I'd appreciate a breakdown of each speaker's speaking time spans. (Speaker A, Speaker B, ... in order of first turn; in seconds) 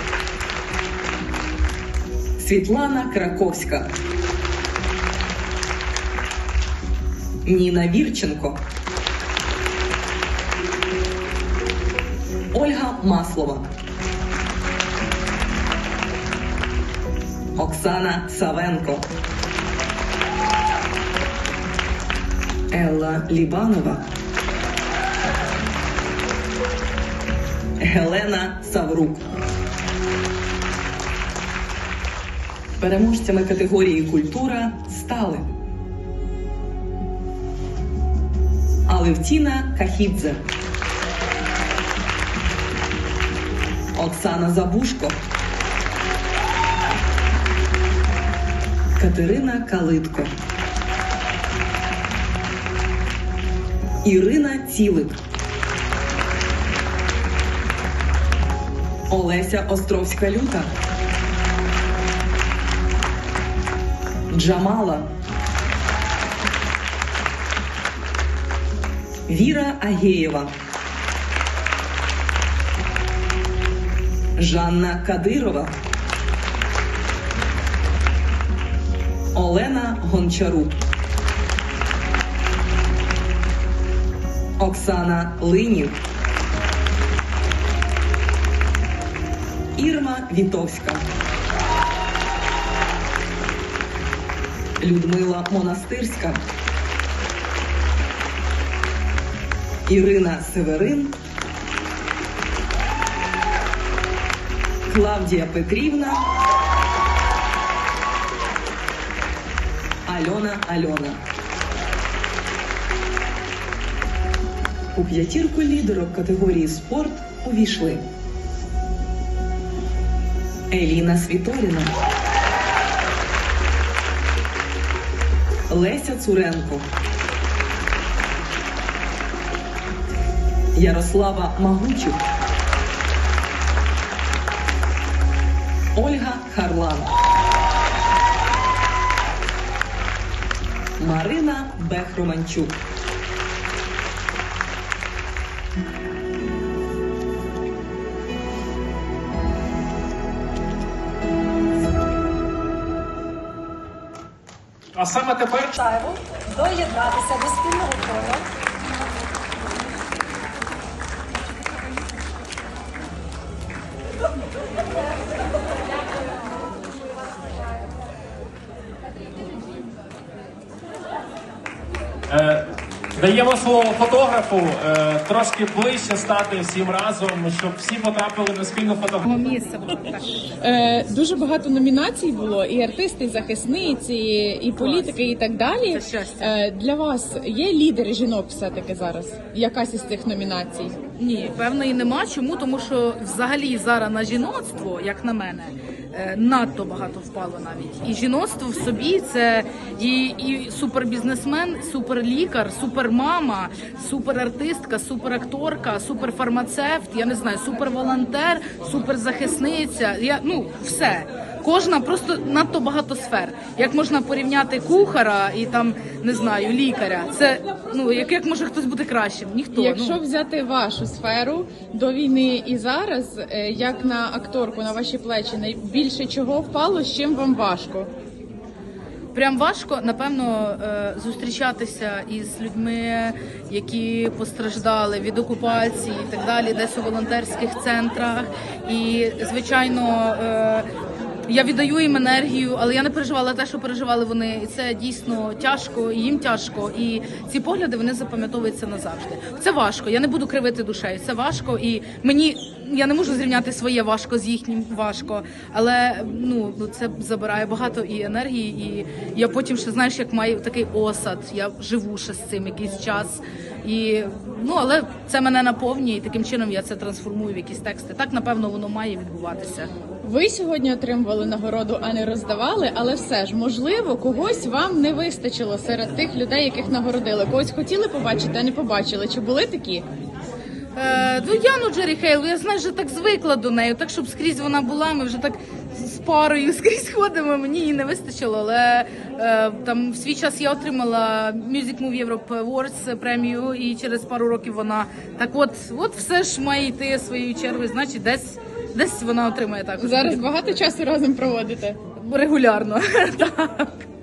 Speaker A: 2.4-3.9, 7.4-8.6, 12.5-13.7, 17.5-19.1, 22.7-24.1, 27.8-29.2, 32.8-35.5, 38.9-40.5, 44.0-45.2, 49.0-50.3, 54.0-55.2, 59.1-60.7, 64.3-65.1, 69.3-70.5, 74.4-75.8, 79.3-80.8, 84.6-86.0, 89.8-91.1, 94.8-96.4, 99.8-101.2, 104.9-106.3, 110.0-111.2, 114.9-118.0, 120.7-121.9, 125.7-126.9, 130.7-132.2, 135.9-137.1, 141.0-142.8
Speaker B: 154.9-155.8, 172.3-172.6, 173.2-179.3
Speaker C: 155.8-158.4
Speaker D: 179.2-180.3, 184.8-185.2, 185.8-186.6, 191.2-220.2, 229.3-240.9, 241.5-269.9, 280.9-300.6, 302.1-304.0
Speaker E: 180.5-190.9, 219.7-228.1, 270.2-280.0, 300.0-302.0